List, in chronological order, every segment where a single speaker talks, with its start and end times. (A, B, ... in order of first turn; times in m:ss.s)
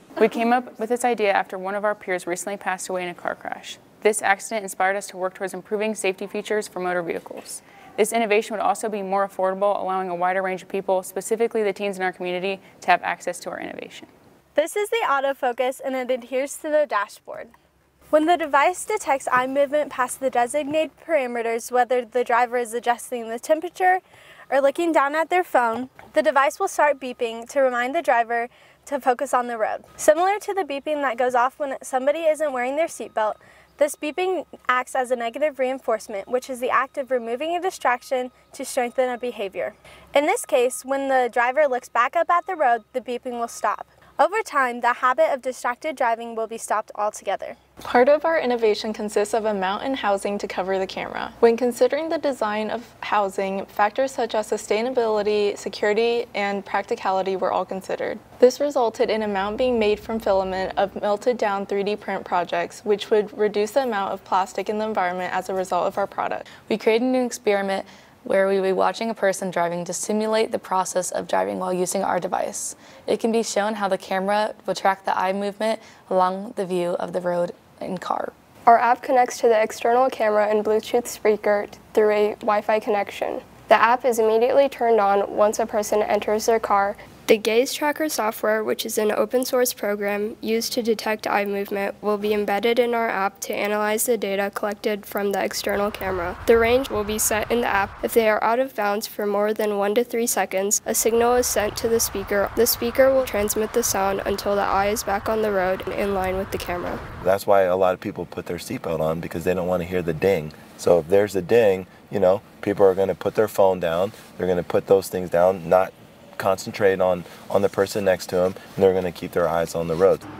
0:00.2-0:14.1 A
0:14.6-0:17.5 B
0:18.1-0:47.6 B
0:47.8-1:06.6 C
1:06.6-1:18.3 D
1:18.6-1:47.0 E
1:47.2-2:00.2 F